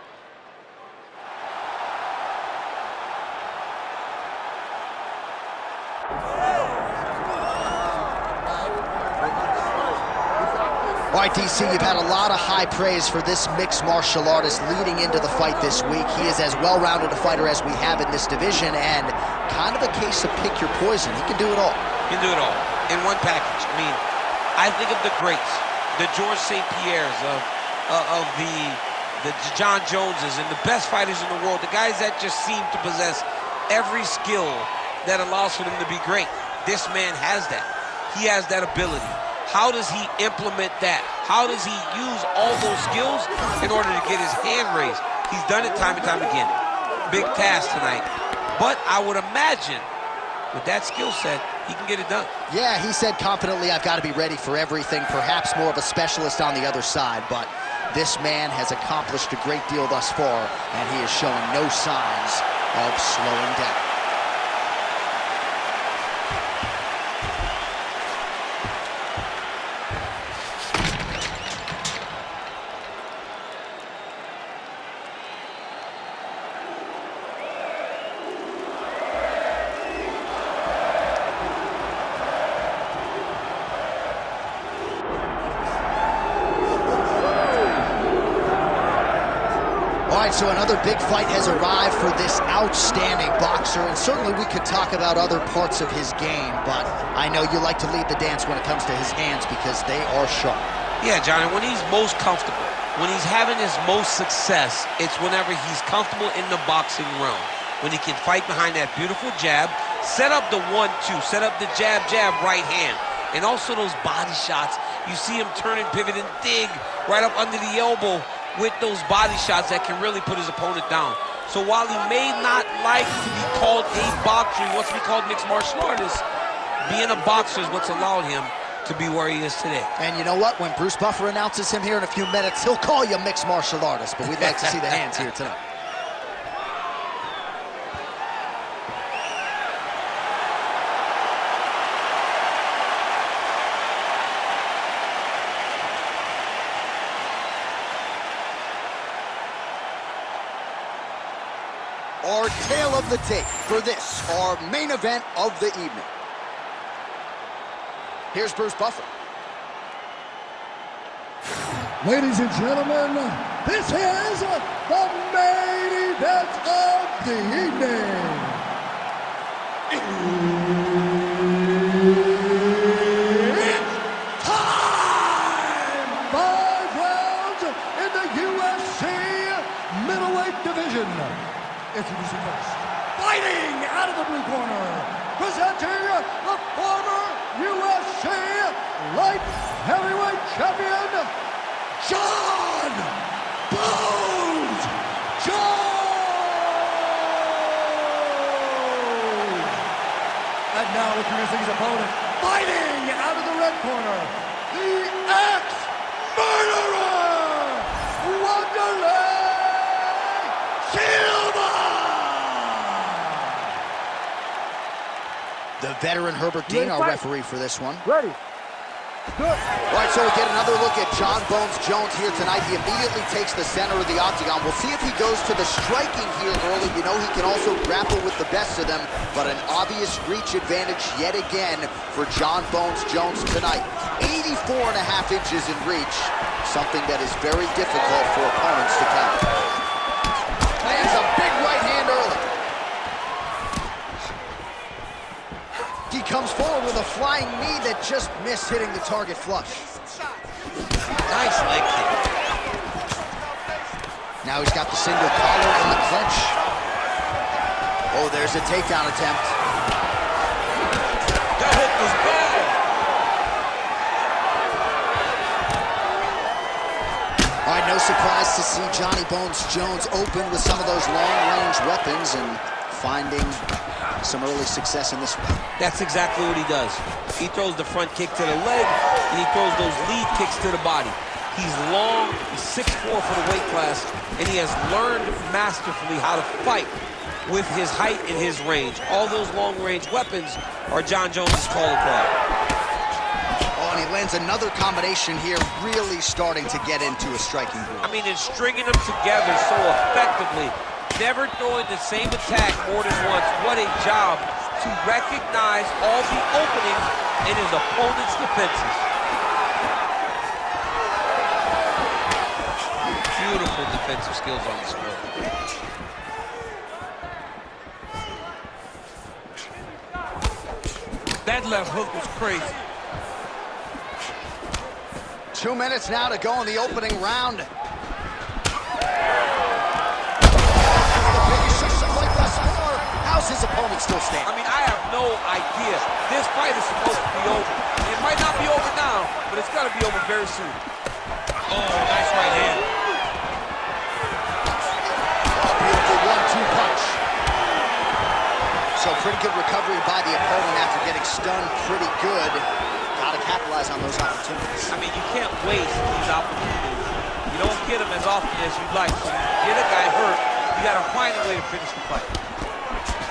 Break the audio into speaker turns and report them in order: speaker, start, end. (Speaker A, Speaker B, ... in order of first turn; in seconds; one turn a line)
Speaker A: 11.1-21.8
Speaker B: 22.1-24.0
Speaker B: 24.6-46.5
Speaker B: 47.1-49.9
Speaker B: 50.5-52.3
Speaker A: 52.5-63.8
Speaker A: 90.1-100.7
Speaker B: 101.0-126.2
Speaker B: 126.8-129.9
Speaker A: 130.0-135.6
Speaker B: 134.3-135.3
Speaker A: 152.2-156.1
Speaker A: 158.3-159.1
Speaker C: 162.0-168.7
Speaker C: 169.9-191.3
Speaker C: 192.0-199.8
Speaker C: 200.7-213.8
Speaker A: 215.8-218.1
Speaker C: 216.7-217.2
Speaker C: 218.1-218.4
Speaker C: 219.4-219.6
Speaker A: 219.9-239.5
Speaker A: 240.8-242.5
Speaker A: 246.1-249.9
Speaker B: 251.3-252.2
Speaker A: 254.4-256.6
Speaker A: 258.1-259.6
Speaker B: 261.6-262.8
Speaker A: 267.6-273.6
Speaker A: 274.2-275.6
Speaker B: 275.8-292.3
Speaker A: 293.8-298.2
Speaker B: 298.0-309.1
Speaker B: 313.4-315.3
Speaker B: 321.4-322.7
Speaker A: 325.5-327.7
Speaker A: 331.0-334.5
Speaker B: 334.4-340.8
Speaker B: 341.7-342.9
Speaker A: 345.5-347.2
Speaker A: 349.0-354.9
Speaker B: 354.9-362.3